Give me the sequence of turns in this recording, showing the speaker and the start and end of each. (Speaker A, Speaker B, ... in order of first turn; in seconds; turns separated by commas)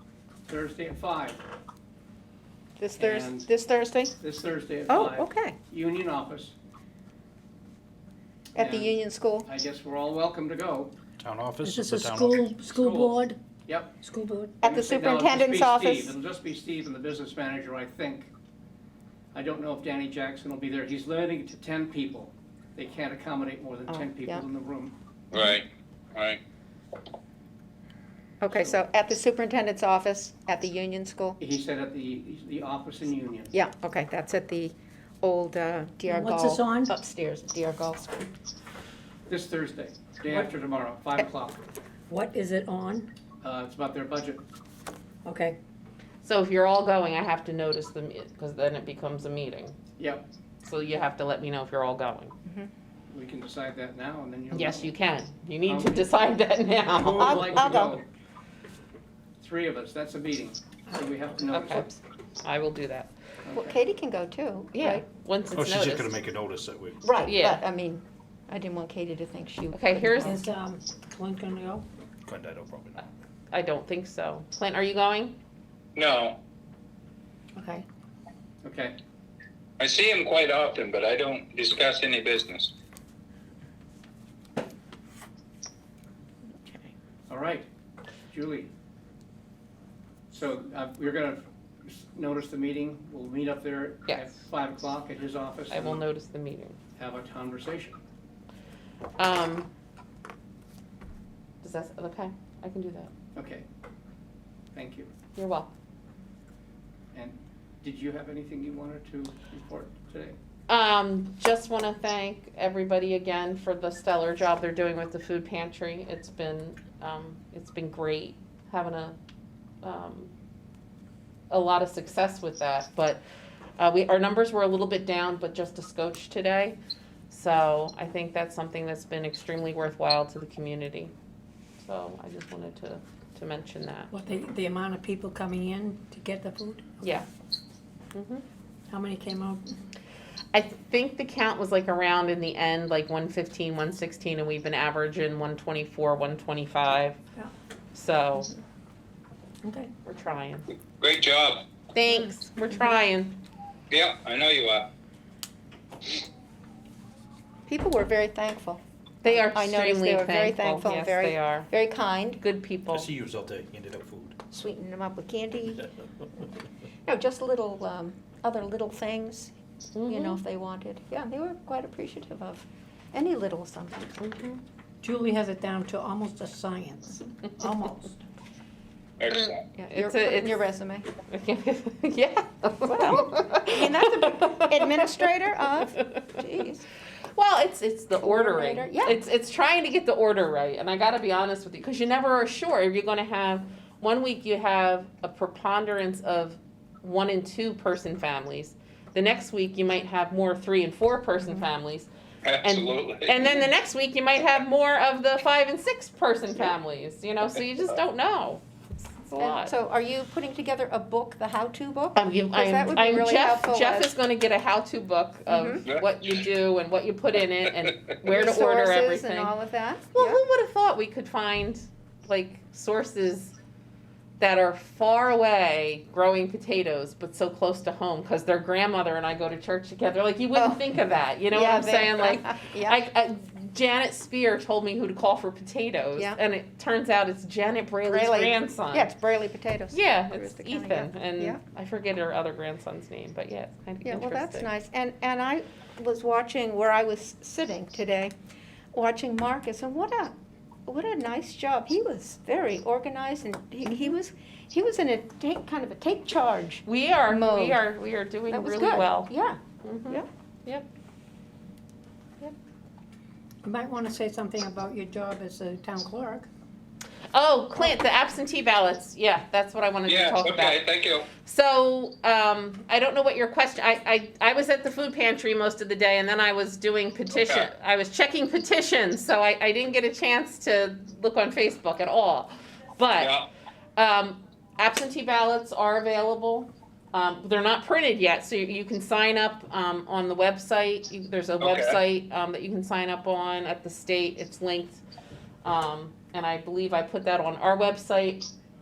Speaker A: 0.5-1.4, Speaker B: 2.8-4.1, Speaker A: 3.0-3.5, Speaker A: 4.2-6.5, Speaker B: 4.9-5.6, Speaker A: 8.5-10.9, Speaker B: 8.6-9.5, Speaker C: 11.2-12.4, Speaker D: 11.6-13.4, Speaker A: 12.6-14.0, Speaker D: 14.0-14.7, Speaker B: 14.6-16.1, Speaker A: 14.6-18.3, Speaker A: 19.3-24.9, Speaker B: 23.9-24.4, Speaker E: 25.3-26.4, Speaker B: 28.4-31.4, Speaker A: 31.4-33.5, Speaker B: 33.5-38.3, Speaker D: 36.0-36.9, Speaker A: 39.3-41.6, Speaker D: 42.1-43.1, Speaker A: 43.4-44.4, Speaker D: 45.2-45.6, Speaker F: 46.2-49.8, Speaker A: 50.0-50.2, Speaker F: 50.6-52.3, Speaker B: 52.4-52.7, Speaker A: 53.1-55.0, Speaker F: 54.5-57.8, Speaker A: 55.6-56.0, Speaker A: 56.9-58.0, Speaker B: 57.2-58.0, Speaker A: 59.4-61.9, Speaker F: 61.5-61.9, Speaker F: 62.4-63.1, Speaker A: 63.4-63.9, Speaker B: 63.5-65.0, Speaker F: 64.7-66.2, Speaker C: 65.5-67.0, Speaker B: 67.0-70.4, Speaker F: 67.1-67.6, Speaker F: 69.7-70.4, Speaker D: 70.2-71.8, Speaker C: 72.3-73.0, Speaker F: 73.0-75.3, Speaker E: 76.0-76.4, Speaker D: 77.5-77.8, Speaker A: 78.6-79.0, Speaker E: 79.8-82.7, Speaker B: 86.6-86.9, Speaker A: 87.3-87.7, Speaker A: 88.3-88.7, Speaker A: 90.3-96.1, Speaker F: 95.7-96.8, Speaker A: 97.0-98.0, Speaker F: 99.2-99.7, Speaker F: 101.6-103.1, Speaker A: 103.3-103.7, Speaker A: 104.7-105.1, Speaker F: 105.3-105.7, Speaker A: 107.1-110.3, Speaker F: 110.7-119.2, Speaker F: 119.8-120.3, Speaker F: 121.5-123.2, Speaker F: 123.8-126.8, Speaker F: 127.3-131.1, Speaker F: 131.8-134.1, Speaker D: 134.1-136.9, Speaker F: 137.0-137.3, Speaker F: 138.1-138.4, Speaker D: 138.9-139.8, Speaker F: 140.5-147.2, Speaker F: 147.9-148.5, Speaker D: 149.6-149.9, Speaker F: 150.0-150.7, Speaker E: 151.0-151.6, Speaker F: 151.9-153.4, Speaker E: 153.9-154.9, Speaker B: 157.7-162.4, Speaker F: 159.2-161.7, Speaker F: 162.4-163.1, Speaker C: 163.0-164.3, Speaker B: 164.5-165.9, Speaker B: 167.1-169.5, Speaker F: 169.9-170.4, Speaker B: 170.1-174.2, Speaker F: 174.2-174.6, Speaker D: 175.0-178.2, Speaker E: 179.2-179.6, Speaker B: 179.3-181.1, Speaker F: 179.9-180.7, Speaker F: 181.2-185.2, Speaker B: 182.9-186.8, Speaker F: 187.3-202.1, Speaker B: 188.2-189.2, Speaker E: 202.4-203.3, Speaker F: 202.6-209.7, Speaker B: 209.4-214.1, Speaker F: 212.1-219.5, Speaker B: 215.5-215.8, Speaker B: 218.2-220.4, Speaker F: 220.1-223.5, Speaker F: 224.4-239.1, Speaker B: 230.5-230.8, Speaker B: 231.5-233.0, Speaker B: 238.1-241.6, Speaker F: 239.9-244.7, Speaker B: 244.0-248.3, Speaker B: 248.9-250.3, Speaker B: 250.8-257.8, Speaker F: 253.9-254.1, Speaker F: 256.9-259.3, Speaker B: 258.5-260.3, Speaker F: 259.8-260.8, Speaker D: 263.6-266.5, Speaker F: 267.3-270.8, Speaker E: 270.1-271.3, Speaker F: 271.4-283.3, Speaker E: 277.3-277.7, Speaker E: 283.2-283.5, Speaker F: 284.0-295.0, Speaker E: 291.6-292.0, Speaker F: 295.6-298.5